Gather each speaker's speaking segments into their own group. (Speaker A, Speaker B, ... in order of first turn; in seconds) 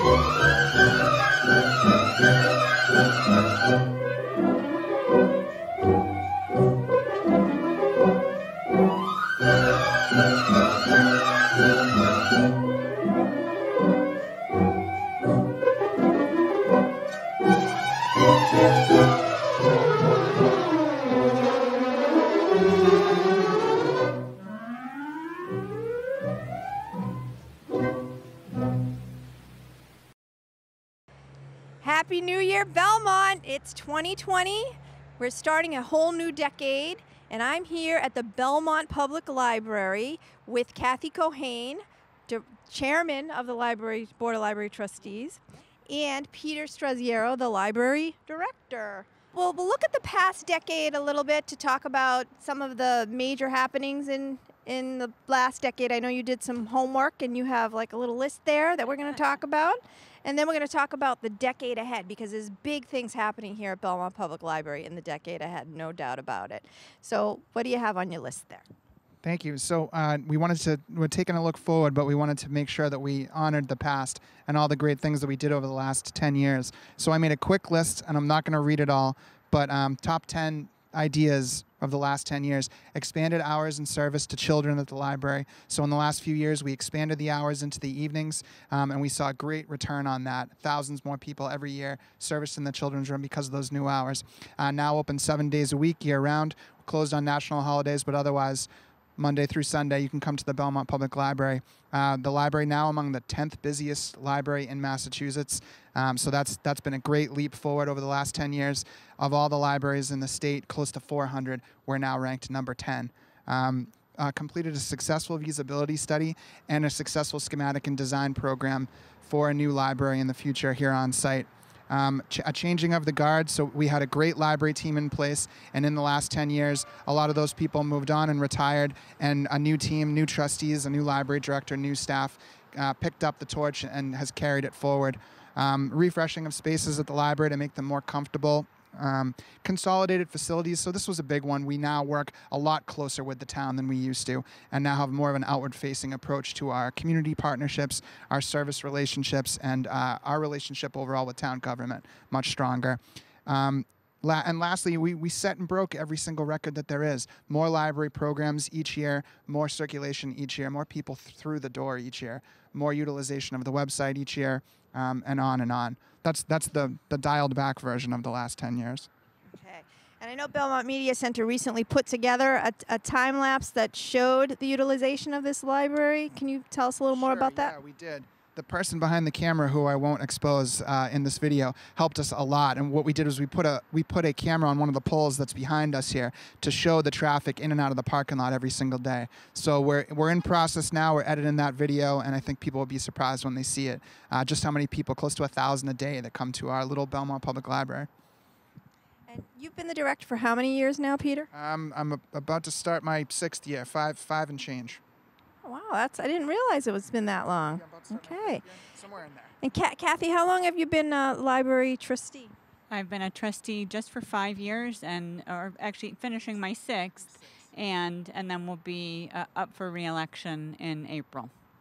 Speaker A: 31.8-68.7, 169.5-177.7, 199.3-201.5, 205.6-208.6, 209.6-212.5
Speaker B: 69.2-169.1, 177.1-198.1, 201.5-205.0, 207.7-209.6, 217.2-217.6
Speaker C: 212.9-221.5